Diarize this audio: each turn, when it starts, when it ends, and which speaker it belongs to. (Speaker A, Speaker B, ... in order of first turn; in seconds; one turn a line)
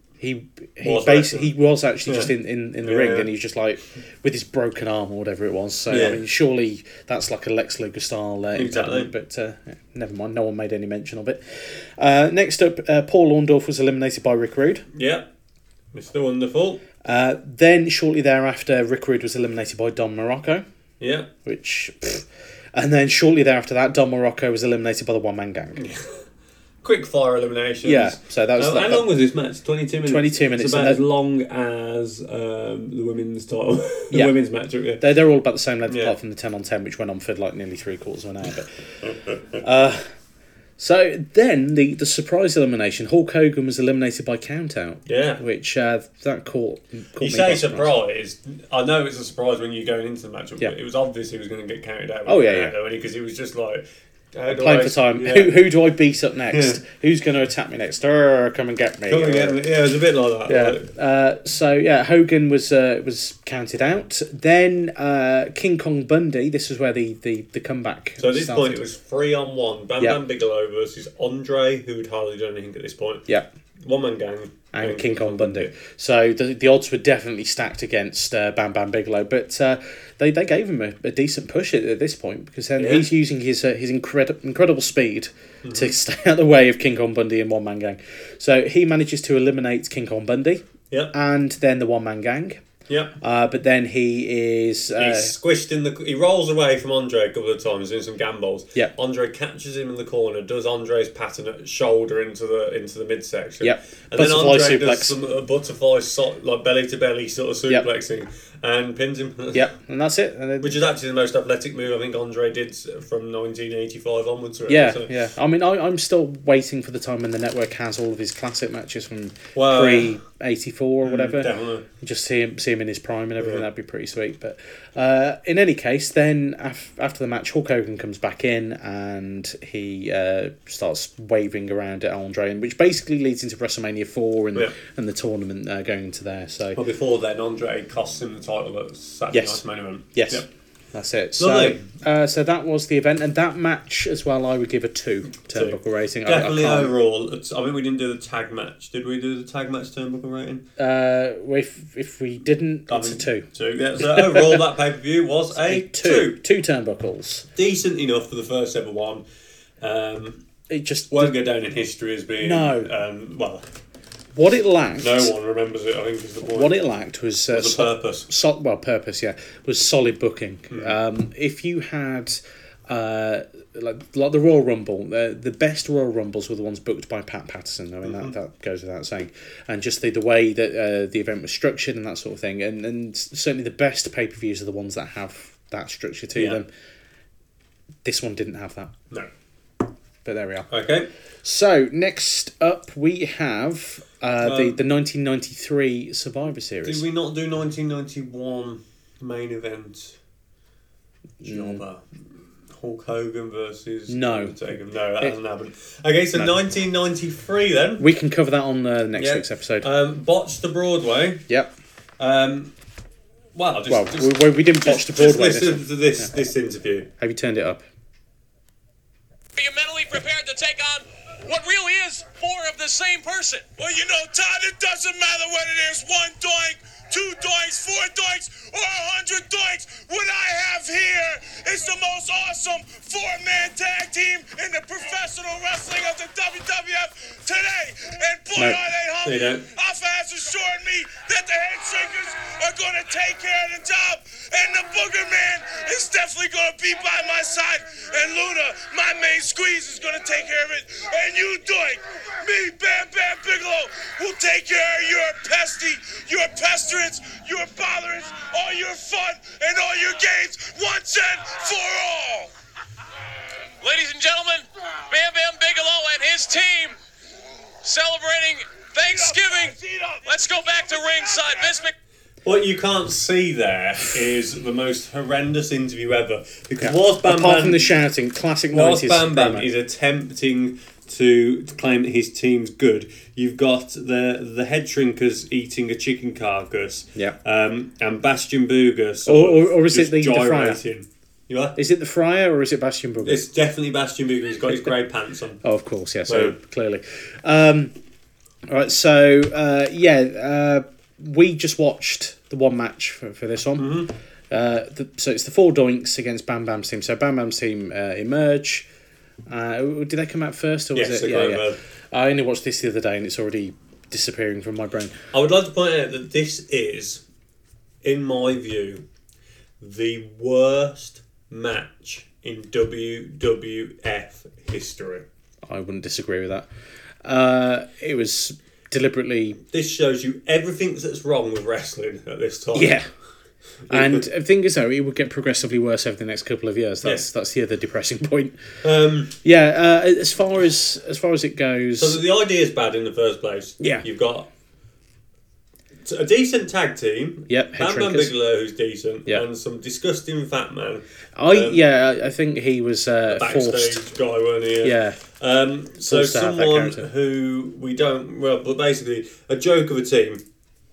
Speaker A: 0.2-14.8
Speaker B: 0.8-1.5
Speaker B: 2.1-2.3
Speaker B: 2.8-3.3
Speaker B: 5.9-6.2
Speaker B: 8.6-9.1
Speaker B: 14.9-15.3
Speaker B: 15.9-16.8
Speaker A: 17.0-20.6
Speaker B: 21.0-21.3
Speaker A: 21.4-25.8
Speaker B: 25.8-26.2
Speaker B: 26.8-35.0
Speaker A: 27.8-29.1
Speaker A: 30.1-31.0
Speaker A: 35.0-38.7
Speaker B: 35.9-36.1
Speaker A: 39.5-40.0
Speaker A: 40.8-47.9
Speaker B: 45.1-45.4
Speaker B: 47.2-55.7
Speaker A: 52.3-52.7
Speaker A: 54.5-59.6
Speaker B: 56.5-56.8
Speaker B: 59.1-60.9
Speaker A: 60.5-68.8
Speaker B: 68.2-73.3
Speaker B: 73.8-75.7
Speaker A: 74.7-92.6
Speaker B: 82.8-83.1
Speaker B: 85.6-85.9
Speaker B: 92.9-93.1
Speaker A: 93.2-95.3
Speaker B: 95.0-109.7
Speaker A: 103.6-105.1
Speaker A: 109.5-110.8
Speaker B: 110.6-115.1
Speaker A: 114.7-136.8
Speaker B: 119.5-120.1
Speaker B: 121.0-121.8
Speaker B: 123.4-123.7
Speaker B: 136.8-140.5
Speaker A: 139.3-146.9
Speaker B: 141.4-141.8
Speaker B: 145.5-150.7
Speaker A: 150.8-153.5
Speaker B: 152.9-156.4
Speaker A: 154.0-154.6
Speaker A: 155.5-157.5
Speaker B: 157.6-159.2
Speaker B: 159.8-160.4
Speaker A: 160.7-161.4
Speaker B: 161.1-163.6
Speaker A: 162.4-162.9
Speaker A: 164.3-165.3
Speaker B: 165.0-166.7
Speaker A: 166.4-186.7
Speaker B: 167.5-168.3
Speaker B: 170.7-170.9
Speaker B: 178.0-178.3
Speaker B: 186.3-186.6
Speaker A: 188.0-188.9
Speaker A: 190.2-190.7
Speaker B: 190.7-191.1
Speaker A: 191.4-197.0
Speaker B: 194.4-194.8
Speaker B: 196.8-200.2
Speaker A: 201.4-201.8
Speaker B: 201.4-202.0
Speaker B: 202.7-208.1
Speaker A: 204.1-204.6
Speaker A: 208.0-209.9
Speaker B: 209.2-211.4
Speaker B: 212.2-212.7
Speaker B: 213.5-217.1
Speaker A: 213.9-216.3
Speaker A: 217.2-217.8
Speaker C: 219.6-223.8
Speaker D: 223.8-262.5
Speaker A: 238.5-238.8
Speaker B: 239.2-239.7
Speaker C: 263.8-267.0
Speaker C: 267.8-271.9
Speaker B: 272.4-277.9
Speaker A: 276.8-279.7
Speaker B: 278.7-291.8
Speaker A: 289.3-290.8
Speaker A: 291.8-293.4
Speaker B: 293.2-295.6
Speaker A: 295.6-297.9
Speaker B: 296.3-296.6
Speaker A: 298.7-308.9
Speaker B: 303.8-304.1
Speaker A: 309.5-315.1
Speaker B: 310.9-311.8
Speaker B: 315.3-317.2
Speaker B: 318.0-319.0
Speaker B: 319.8-325.2
Speaker A: 325.7-326.7
Speaker A: 327.2-329.6
Speaker B: 329.7-333.0
Speaker A: 332.7-333.1
Speaker B: 333.9-334.2
Speaker A: 333.9-338.6
Speaker B: 338.8-339.3
Speaker A: 339.4-342.2
Speaker B: 342.0-344.5
Speaker A: 343.8-344.1
Speaker B: 346.0-351.8
Speaker A: 347.5-348.3
Speaker A: 351.4-354.0
Speaker B: 353.3-360.4
Speaker A: 354.8-355.2
Speaker A: 356.0-357.1